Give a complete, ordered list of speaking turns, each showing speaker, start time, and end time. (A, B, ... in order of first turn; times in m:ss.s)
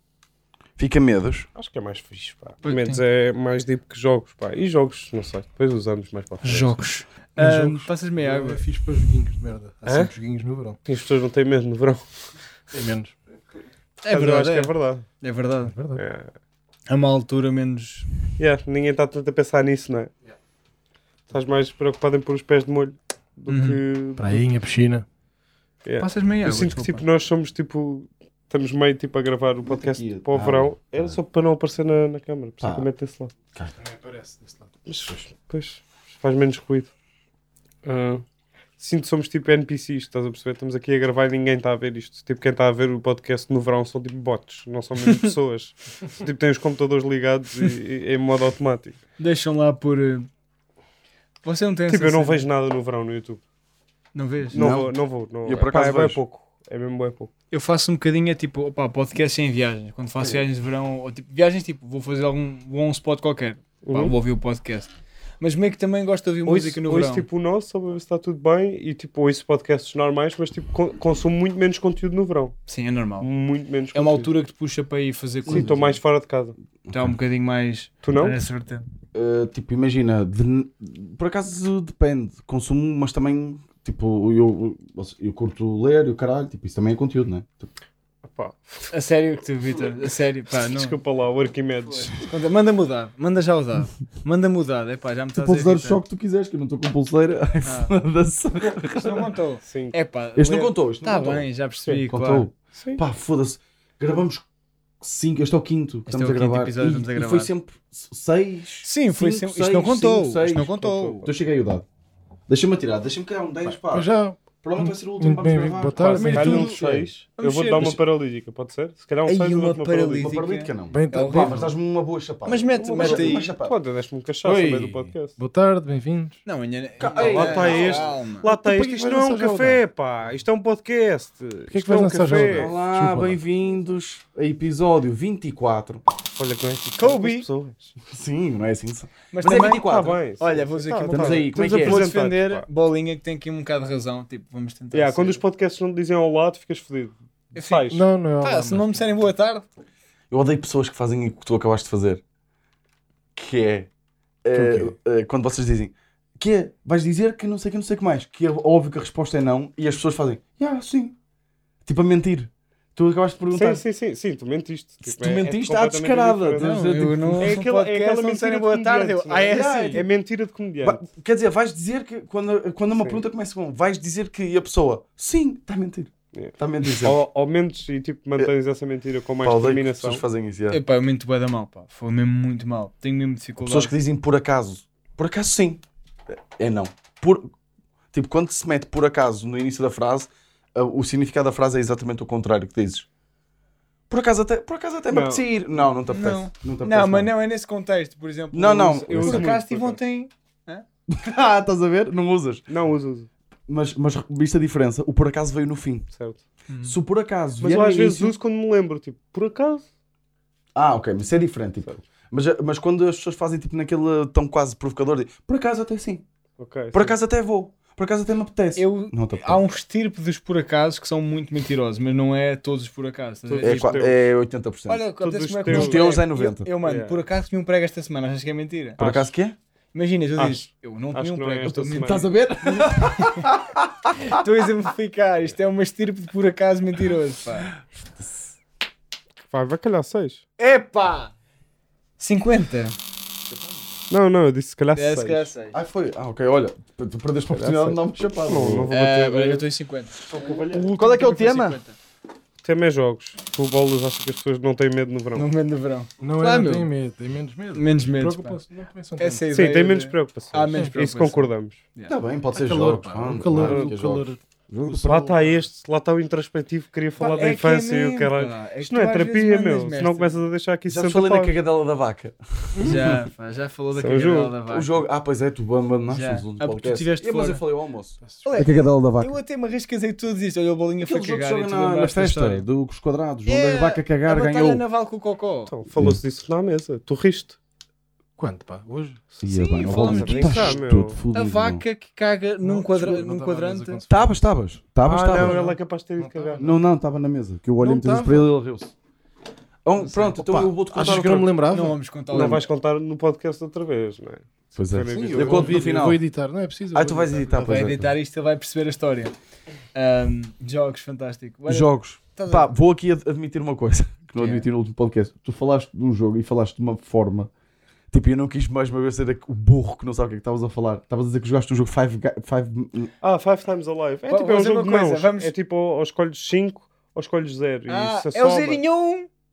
0:00.8-0:01.5 A
0:01.6-0:06.9 B
0:02.6-0:03.0 C
0:06.4-0:08.6 C
0:07.4-0:10.8 D
0:09.9-0:10.1 B
0:10.9-0:12.1 B
0:12.7-0:13.2 D
0:14.0-0:15.8 C
0:14.1-0:15.1 B
0:15.7-0:16.0 D
0:16.0-0:16.3 B
0:16.9-0:18.1 C
0:18.4-0:20.1 B
0:21.3-0:24.4 B
0:23.5-0:23.8 C
0:24.2-0:25.1 D
0:25.8-0:33.3 B
0:26.0-0:27.0 C
0:29.7-0:31.2 A
0:32.6-0:32.9 A
0:33.8-0:34.7 D
0:34.9-0:36.9 B
0:37.8-0:38.2 B
0:38.8-0:49.0 B
0:49.2-0:50.3 C
0:51.4-0:52.4 C
0:51.9-0:53.4 B
0:54.2-0:54.6 C
0:54.5-0:57.3 B
0:54.5-0:56.2 A
0:57.5-1:07.3 C
1:03.9-1:04.2 B
1:06.5-1:12.6 B
1:12.7-1:13.3 C
1:13.2-1:14.3 B
1:13.9-1:16.0 C
1:15.5-1:15.8 A
1:15.5-1:16.6 B
1:16.9-1:17.2 A
1:16.9-1:18.9 C
1:18.0-1:18.4 B
1:19.1-1:27.7 A
1:28.2-1:28.9 B
1:28.9-1:31.0 C
1:30.7-1:32.3 B
1:32.2-1:36.0 C
1:35.4-1:39.3 A
1:37.6-1:37.9 C
1:38.9-1:42.5 C
1:39.6-1:39.9 B
1:40.4-1:41.5 A
1:42.1-1:44.5 A
1:42.8-1:43.0 B
1:45.0-1:51.8 A
1:46.1-1:47.5 C
1:48.8-1:51.3 C
1:52.5-1:54.1 A
1:53.9-1:56.8 D
1:54.6-1:57.1 A
1:55.9-2:00.3 B
1:56.4-1:56.7 C
1:57.4-1:58.0 C
1:59.2-2:01.7 C
2:00.2-2:03.8 A
2:00.9-2:01.7 D
2:02.5-2:03.5 C
2:02.8-2:05.4 B
2:04.4-2:06.4 D
2:06.4-2:08.5 C
2:07.0-2:08.1 A
2:07.0-2:12.8 B
2:08.4-2:09.8 D
2:11.7-2:13.4 D
2:12.5-2:16.0 A
2:16.4-2:17.9 B
2:17.0-2:17.4 C
2:18.1-2:22.0 A
2:19.3-2:25.4 C
2:19.5-2:22.7 B
2:24.9-2:28.0 B
2:27.6-2:29.7 C
2:27.9-2:28.9 D
2:30.3-2:32.2 A
2:33.4-2:33.9 A
2:34.4-2:41.2 A
2:34.5-2:34.9 D
2:41.8-2:43.8 A
2:43.5-2:51.0 B
2:45.1-2:47.6 A
2:46.6-2:50.0 C
2:49.5-2:50.1 A
2:50.8-2:57.2 A
2:56.3-3:00.2 B
2:59.4-3:00.8 A
3:00.7-3:03.9 C
3:03.6-3:07.5 A
3:08.1-3:13.1 A
3:14.1-3:17.3 A
3:15.1-3:15.4 B
3:16.1-3:20.8 C
3:18.5-3:19.5 A
3:19.0-3:20.0 B
3:21.1-3:22.6 A
3:22.7-3:23.3 B
3:23.7-3:26.1 A
3:26.2-3:26.4 B
3:26.7-3:27.0 C
3:26.8-3:28.4 A
3:27.6-3:29.9 B
3:30.8-3:36.2 A
3:36.6-3:37.2 B
3:36.9-3:39.6 A
3:38.8-3:44.1 C
3:43.5-3:44.2 B
3:43.6-3:45.0 A
3:44.9-3:49.0 C
3:45.2-3:46.1 B
3:45.6-3:46.7 A
3:46.8-3:47.2 B
3:49.0-3:49.3 B
3:49.0-3:49.6 A
3:49.9-3:53.5 C
3:50.4-3:52.3 B
3:51.6-3:54.2 A
3:54.2-3:57.7 C
3:58.2-3:58.4 A
3:59.5-4:00.4 B
4:00.6-4:01.3 C
4:02.2-4:03.0 C
4:04.1-4:05.5 B
4:05.0-4:05.8 C
4:05.7-4:08.9 A
4:07.5-4:09.6 B
4:08.9-4:12.0 C
4:10.3-4:10.9 B
4:10.4-4:11.8 A
4:12.6-4:15.5 B
4:15.4-4:16.9 C
4:16.2-4:19.4 D
4:17.7-4:18.6 C
4:19.2-4:22.2 C
4:19.5-4:21.8 B
4:22.1-4:25.1 A
4:22.6-4:25.5 D
4:23.6-4:23.9 B
4:24.9-4:31.6 B
4:27.2-4:30.4 C
4:30.9-4:33.2 A
4:32.8-4:35.0 C
4:33.9-4:34.5 B
4:34.7-4:39.4 A
4:36.1-4:37.6 C
4:38.4-4:42.6 C
4:41.0-4:44.8 A
4:43.5-4:45.7 C
4:45.7-4:47.6 B
4:48.4-4:49.2 D
4:49.3-4:51.2 B
4:49.4-4:51.8 A
4:49.4-4:54.0 C
4:52.6-4:54.4 D
4:54.1-4:55.6 A
4:55.0-4:56.7 B
4:55.3-4:56.8 D
4:56.6-4:58.9 A
4:57.8-4:58.5 D
4:59.8-5:01.5 A
5:00.2-5:02.0 D
5:01.7-5:02.6 C
5:02.3-5:06.0 B
5:04.8-5:06.2 A
5:05.1-5:07.7 D
5:06.9-5:08.1 A
5:07.6-5:09.3 C
5:09.9-5:12.7 C
5:11.7-5:17.5 A
5:14.4-5:14.7 C
5:18.1-5:23.1 A
5:23.2-5:28.8 B
5:24.3-5:25.5 C
5:27.9-5:29.3 C